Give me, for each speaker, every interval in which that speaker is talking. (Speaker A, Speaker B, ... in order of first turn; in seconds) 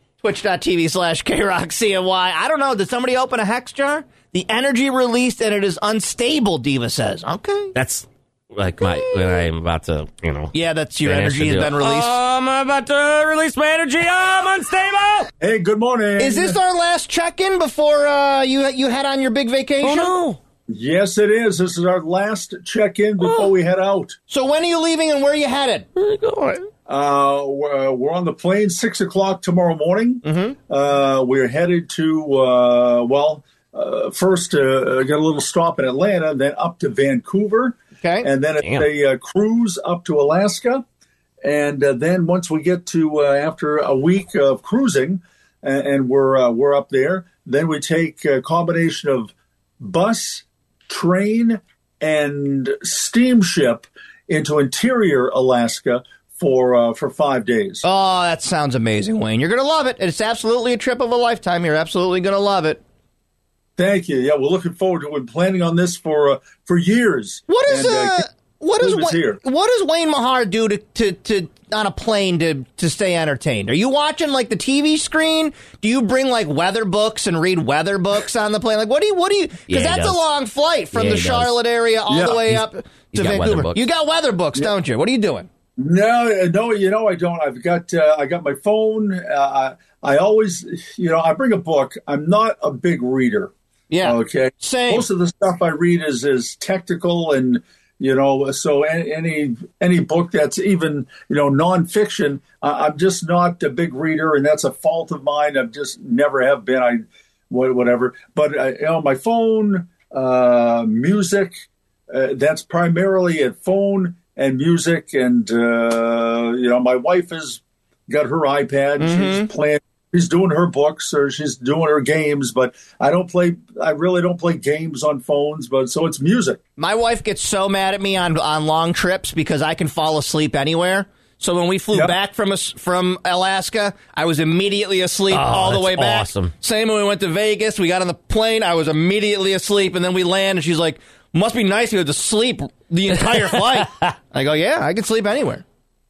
Speaker A: 0.2-7.7, 8.9-9.4, 10.5-12.2, 16.2-20.1, 24.3-25.9, 30.2-30.6, 38.0-38.3, 57.8-62.8, 67.5-85.5, 93.9-95.1, 119.0-119.5, 126.8-145.6
Speaker B: 7.8-10.5, 11.0-15.3, 19.8-20.4, 26.0-26.7, 38.6-38.9, 79.7-80.3, 80.9-81.6, 82.5-83.8, 135.3-136.5, 143.3-144.1
Speaker C: 15.4-16.6, 20.7-24.2, 26.9-40.8, 41.4-57.8, 63.8-68.3, 68.8-69.4, 82.1-82.4, 85.8-93.5, 94.0-111.6, 112.1-126.6